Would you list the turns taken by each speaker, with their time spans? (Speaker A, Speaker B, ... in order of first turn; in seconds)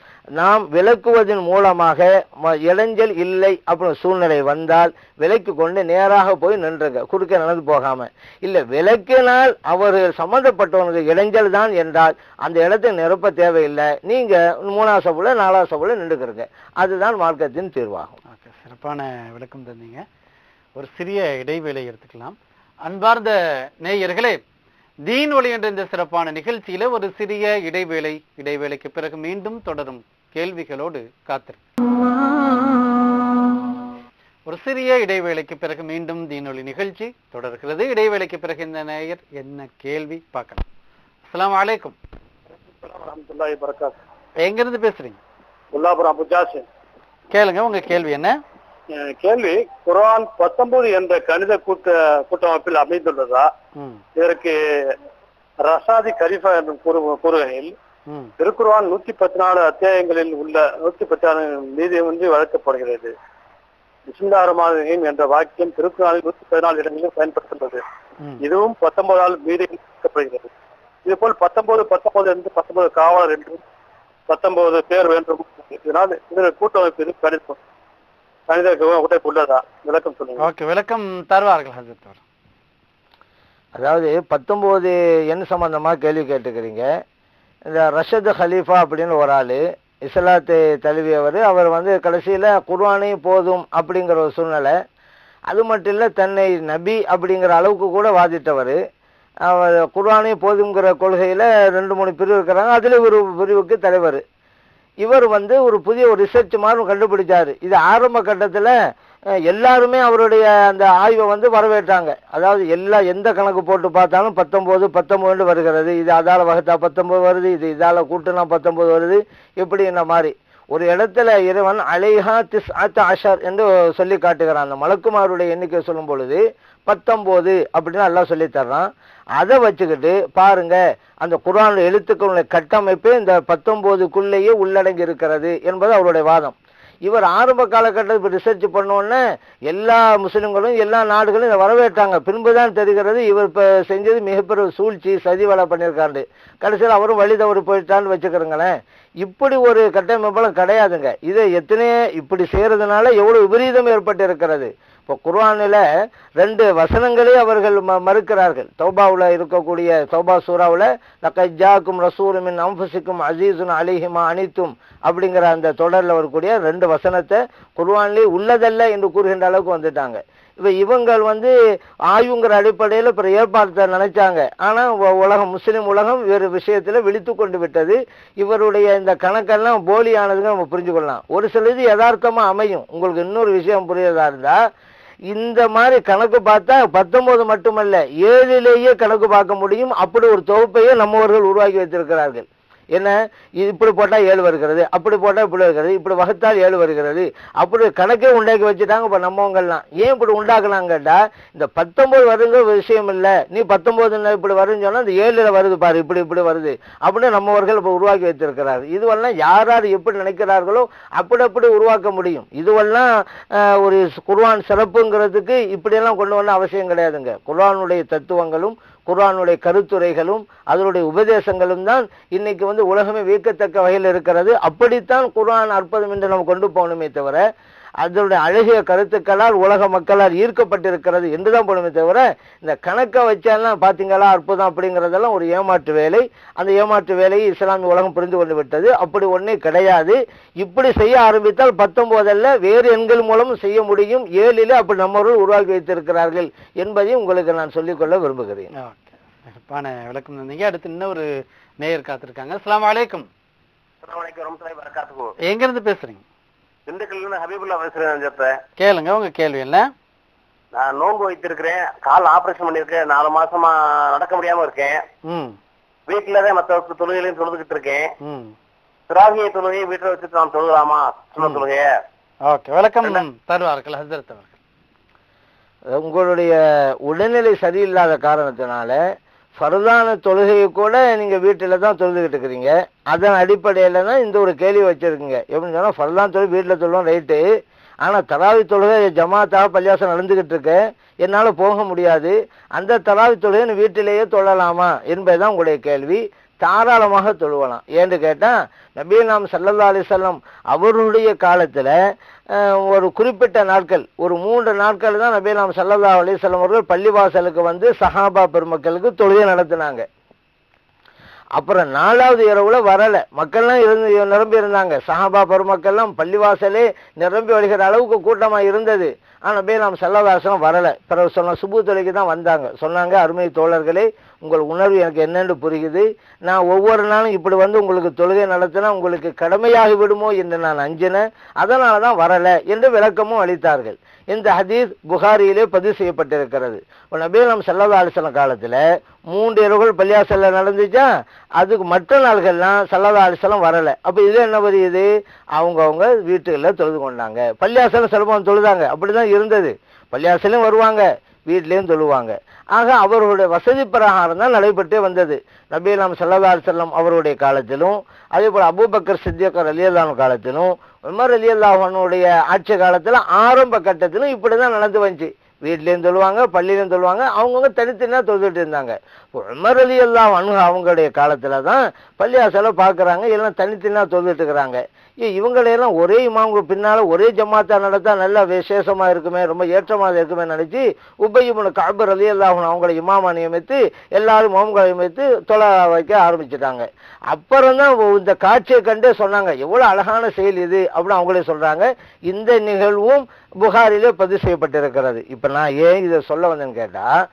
Speaker A: 0.4-18.1, 83.8-86.9, 87.7-94.8, 95.5-98.8, 99.5-104.2, 105.0-108.7, 109.5-155.8, 156.4-171.5, 172.1-184.6, 185.3-227.4, 228.0-248.7, 275.9-279.0, 279.6-287.4, 288.0-301.9, 302.5-310.1, 311.6-341.1, 341.6-397.1
Speaker B: 18.3-20.0, 20.8-24.4, 25.1-31.6, 34.5-40.6, 41.3-42.0, 44.4-45.2, 47.3-48.4, 53.8-54.0, 80.4-82.2, 248.8-251.3, 251.8-253.3, 255.4-256.2, 258.8-259.9, 265.3-265.6, 268.2-268.5, 272.5-274.6
Speaker C: 42.8-44.0, 45.7-46.7, 48.9-53.5, 54.2-55.0, 55.6-57.8, 58.4-63.1, 64.1-67.8, 68.4-70.5, 71.0-73.6, 74.3-77.6, 78.5-80.5
Speaker D: 254.0-255.3, 256.9-258.6, 260.8-265.1, 266.1-268.1, 269.1-272.0